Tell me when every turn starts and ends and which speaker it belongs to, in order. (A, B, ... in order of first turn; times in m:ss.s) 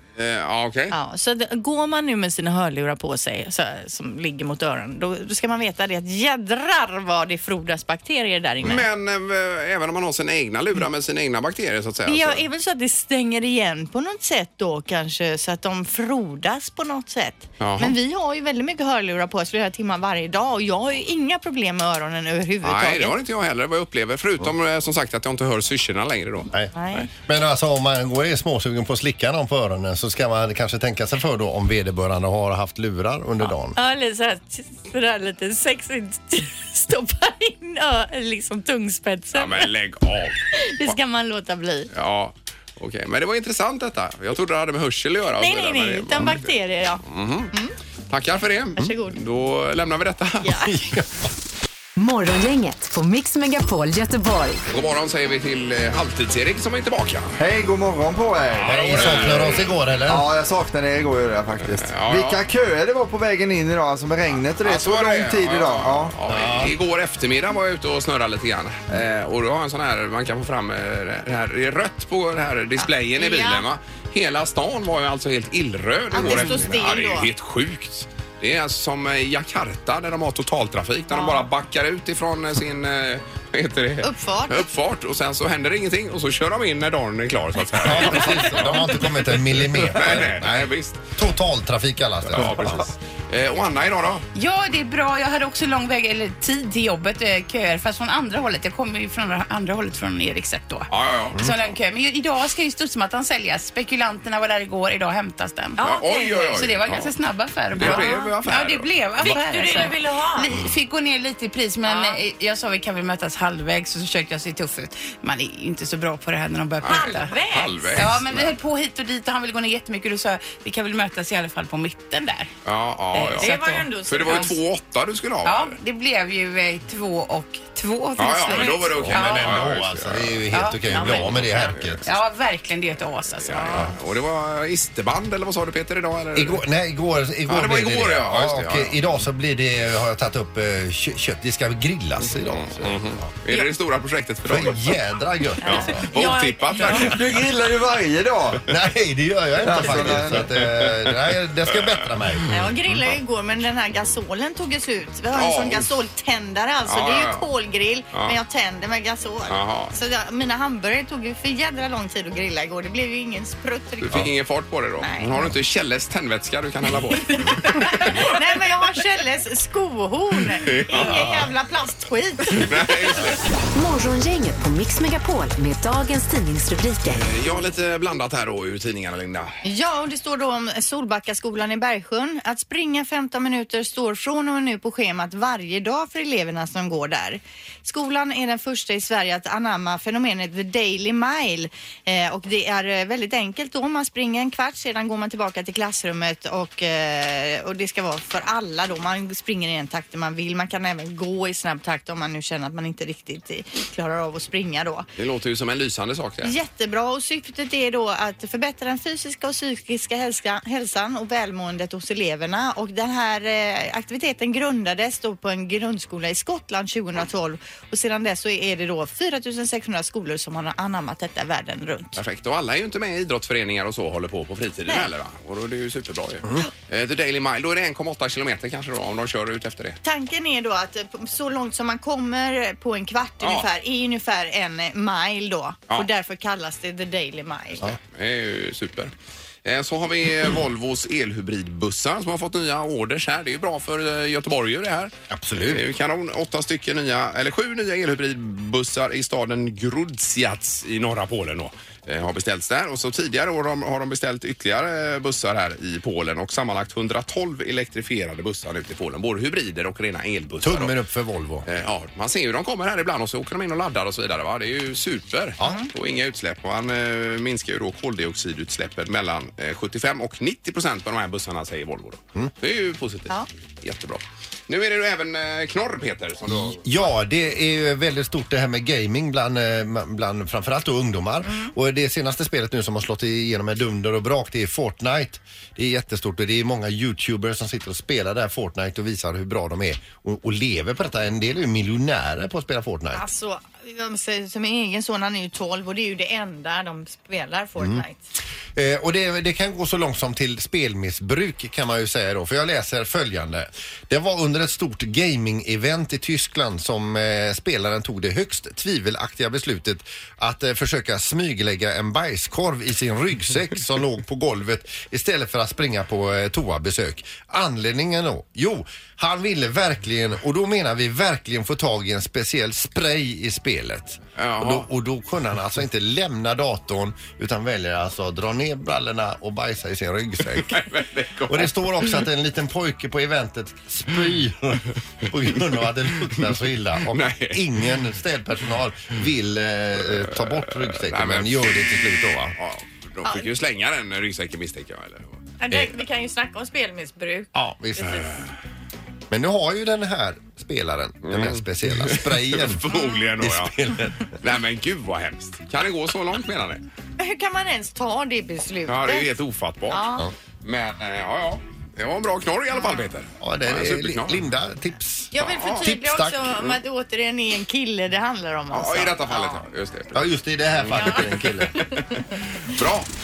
0:00.2-0:01.0 A
0:00.9-0:08.9 B
0:08.6-0:12.4 A
0:12.1-0:23.2 B
0:17.6-0:18.0 A
0:22.6-0:27.0 A
0:26.5-0:33.8 C
0:26.8-0:27.1 B
0:33.8-0:39.7 B
0:39.3-0:41.0 A
0:40.5-0:41.9 B
0:41.9-0:46.5 A
0:45.4-0:47.8 B
0:47.1-0:47.5 A
0:48.1-0:50.7 A
0:48.8-0:49.2 B
0:50.4-0:50.8 B
0:50.7-0:51.2 C
0:52.0-0:54.6 D
0:54.7-0:57.3 A
0:57.4-0:59.4 E
0:58.6-0:59.7 A
0:58.6-1:00.3 C
1:00.1-1:06.2 E
1:01.8-1:02.5 A
1:04.6-1:31.1 A
1:06.3-1:06.8 C
1:12.8-1:13.6 B
1:16.1-1:17.3 B
1:21.1-1:21.5 B
1:24.0-1:24.7 B
1:27.7-1:32.9 C
1:32.2-1:34.2 A
1:34.4-1:45.9 F
1:40.9-1:41.6 A
1:45.8-1:46.7 B
1:45.8-1:47.1 A
1:46.5-2:02.5 F
1:47.8-1:49.8 A
1:47.8-1:48.3 B
1:49.2-1:50.6 B
1:51.8-1:52.2 B
1:56.8-1:58.5 A
1:56.8-1:58.1 B
2:02.6-2:05.8 A
2:03.1-2:04.6 F
2:03.2-2:04.6 B
2:05.4-2:09.6 F
2:08.2-2:10.4 A
2:08.5-2:09.3 B
2:09.0-2:12.0 C
2:10.5-2:11.0 F
2:10.9-2:11.8 B
2:11.0-2:12.0 A
2:12.0-2:13.8 F
2:13.4-2:16.6 A
2:13.6-2:13.9 B
2:16.4-2:23.3 C
2:17.5-2:19.0 A
2:22.5-2:25.0 A
2:24.5-2:26.1 C
2:25.6-2:27.2 B
2:25.6-2:27.2 A
2:27.0-2:28.6 E
2:28.7-2:33.0 C
2:29.6-2:30.5 E
2:30.1-2:32.7 A
2:32.5-2:44.3 B
2:35.3-2:35.9 A
2:36.9-2:37.5 A
2:38.1-2:38.4 A
2:39.5-2:39.9 A
2:44.0-2:48.4 A
2:45.0-2:45.5 B
2:47.0-2:53.3 B
2:50.6-2:51.5 A
2:52.5-2:53.4 A
2:53.7-2:57.2 D
2:57.1-2:59.5 A
2:59.6-3:25.1 B
3:25.2-3:26.6 A
3:26.4-3:42.2 B
3:42.2-3:50.0 A
3:50.0-3:57.9 B
3:53.4-3:53.7 A
3:57.9-3:59.1 A
3:59.6-4:20.9 A
4:05.3-4:05.8 C
4:20.6-4:21.7 C
4:21.6-4:36.8 A
4:25.6-4:25.9 B
4:36.5-4:53.2 C
4:53.1-4:58.2 B
4:57.8-4:58.0 C
4:58.8-5:30.9 C
5:24.4-5:24.9 A
5:30.6-5:32.2 A
5:31.5-5:42.6 C
5:37.1-5:37.6 A
5:40.2-5:41.9 A
5:42.6-5:45.4 A
5:43.2-5:43.5 B
5:45.6-5:48.3 B
5:47.5-5:48.3 C
5:49.3-5:52.9 C
5:51.2-5:53.7 A
5:53.4-5:54.3 C
5:54.4-5:56.8 A
5:57.2-5:59.3 B
5:58.9-6:00.1 A
5:59.9-6:00.3 B
6:00.6-6:04.4 A
6:02.7-6:03.0 B
6:03.4-6:06.6 C
6:05.3-6:09.6 B
6:05.4-6:06.0 A
6:08.7-6:10.2 A
6:10.1-6:11.9 C
6:10.8-6:13.1 A
6:11.0-6:11.2 B